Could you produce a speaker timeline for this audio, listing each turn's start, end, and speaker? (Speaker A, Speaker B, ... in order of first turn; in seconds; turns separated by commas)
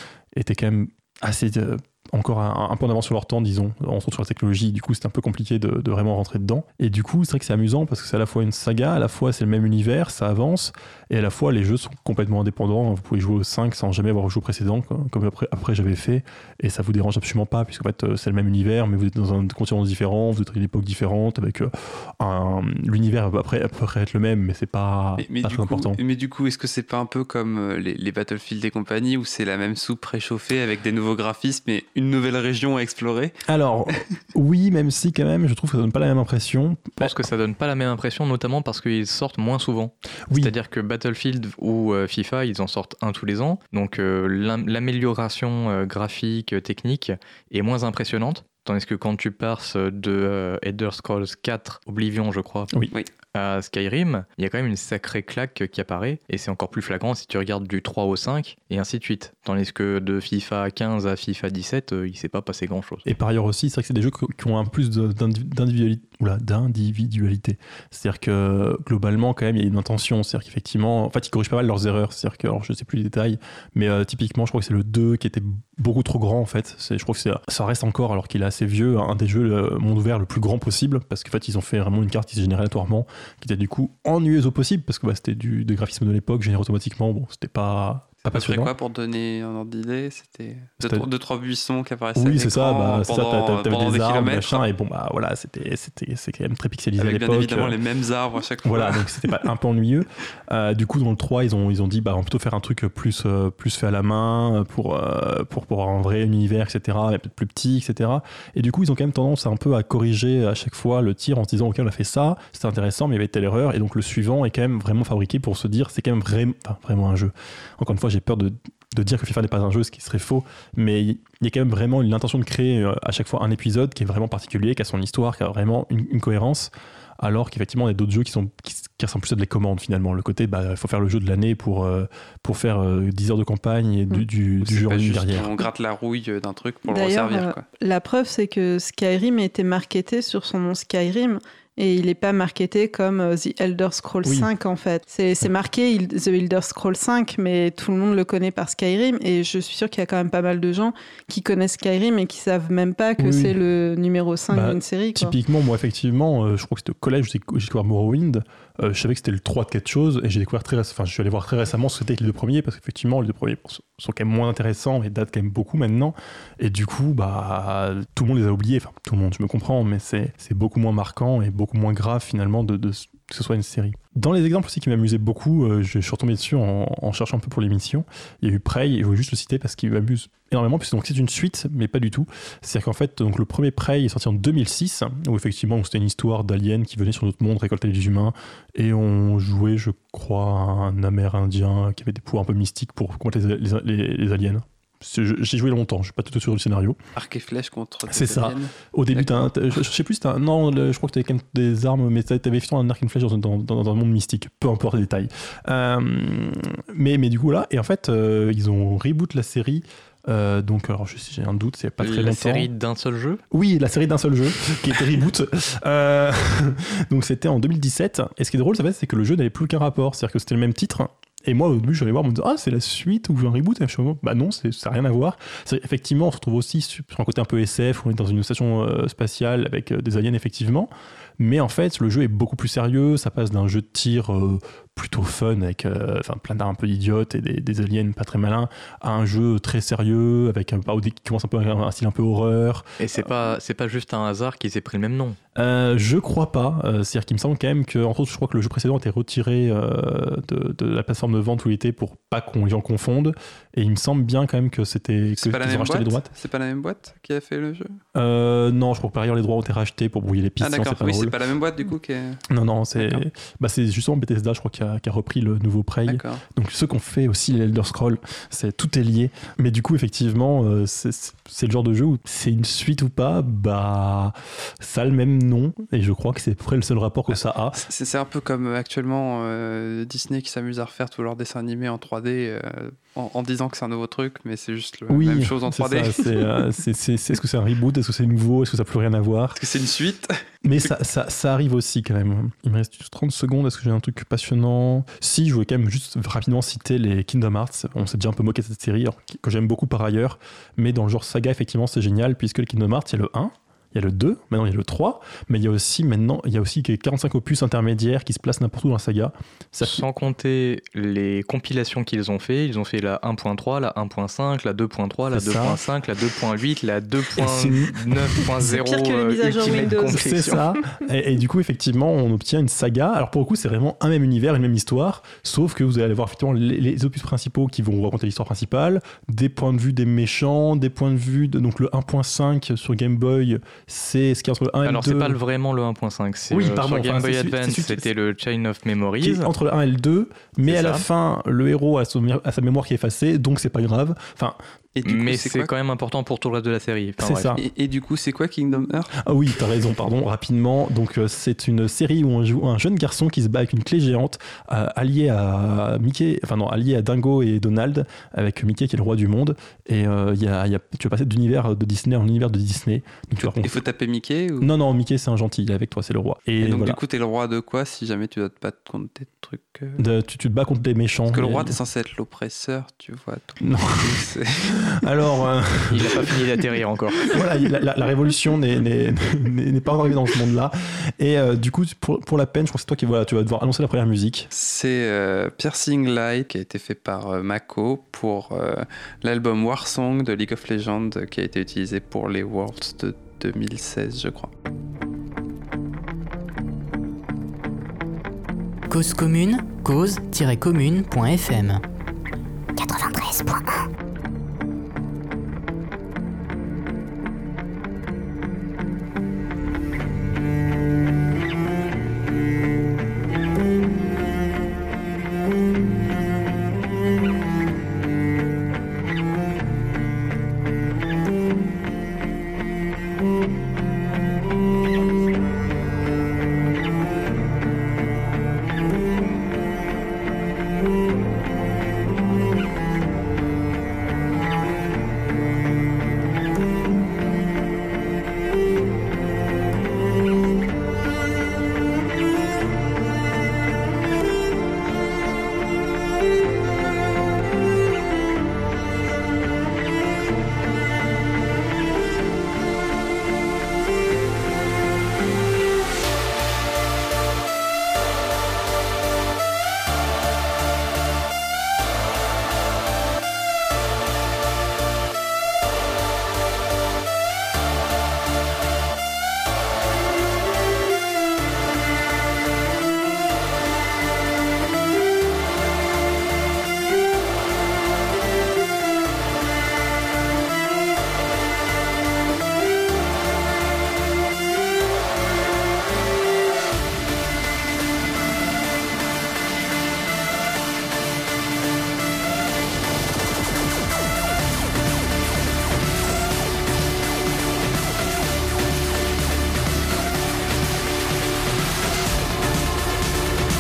Speaker A: 0.3-26.0, Speaker B: 25.2-33.4, Speaker A: 33.5-37.1, Speaker C: 37.0-52.7, Speaker C: 53.3-63.0, Speaker A: 63.0-88.7, Speaker B: 88.3-94.6, Speaker A: 92.2-97.8, Speaker B: 97.0-99.4, Speaker A: 98.6-135.7, Speaker B: 134.6-137.6, Speaker D: 136.9-155.4, Speaker A: 144.2-144.5, Speaker A: 153.2-153.6, Speaker A: 154.5-197.0, Speaker B: 197.2-199.5, Speaker A: 198.1-212.7, Speaker C: 212.0-213.4, Speaker A: 213.5-243.3, Speaker C: 243.0-245.4, Speaker A: 245.6-256.3, Speaker B: 255.4-258.0, Speaker A: 258.1-261.4, Speaker B: 260.6-262.4, Speaker A: 262.5-277.8, Speaker B: 263.0-263.2, Speaker B: 266.1-266.4, Speaker B: 277.3-286.6, Speaker A: 285.1-289.6, Speaker B: 289.6-290.4, Speaker A: 290.6-310.1, Speaker C: 309.8-320.6, Speaker A: 315.3-315.8, Speaker A: 317.4-318.4, Speaker D: 318.6-320.6, Speaker A: 319.7-335.4, Speaker C: 334.9-339.5, Speaker A: 336.5-338.1, Speaker A: 339.2-344.6, Speaker C: 340.6-341.1, Speaker B: 345.0-345.7, Speaker C: 345.1-347.6, Speaker A: 347.2-347.6, Speaker B: 347.6-349.1, Speaker A: 349.1-363.8, Speaker B: 363.4-364.7, Speaker A: 364.6-367.0, Speaker B: 366.6-370.0, Speaker A: 370.0-371.8, Speaker B: 371.3-374.8, Speaker A: 373.6-376.4, Speaker C: 375.9-377.4, Speaker A: 377.3-384.5, Speaker B: 384.5-394.5, Speaker E: 398.9-401.8, Speaker E: 402.8-403.9